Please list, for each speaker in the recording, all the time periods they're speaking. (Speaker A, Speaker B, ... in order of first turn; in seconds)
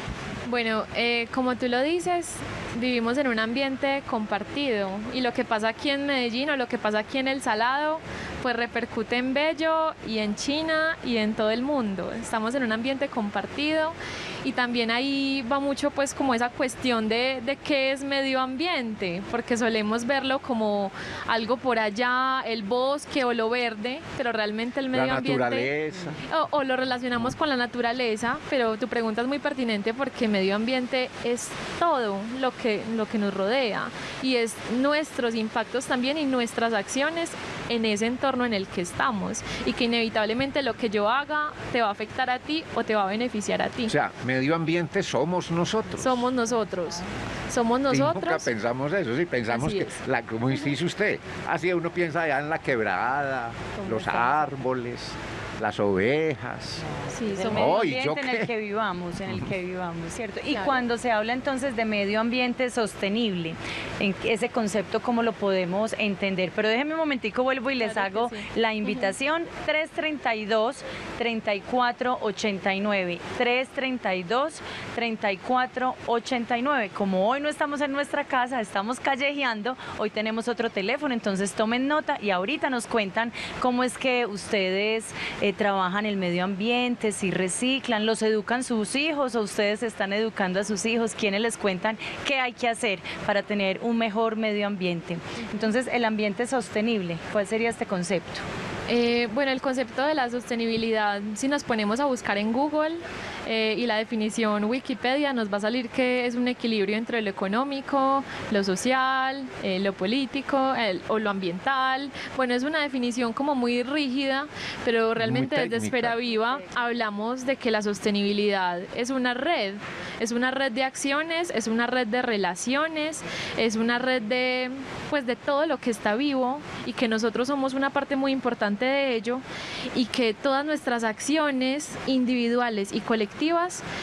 Speaker A: 0.5-25.7, 26.2-43.9, 46.0-48.5, 49.5-49.9, 53.8-54.3, 57.1-57.7, 67.8-69.1, 98.9-129.4, 129.9-133.8
Speaker B: 24.9-26.2, 43.9-46.3, 47.9-56.9, 57.5-58.5, 115.2-116.2
Speaker C: 57.3-98.5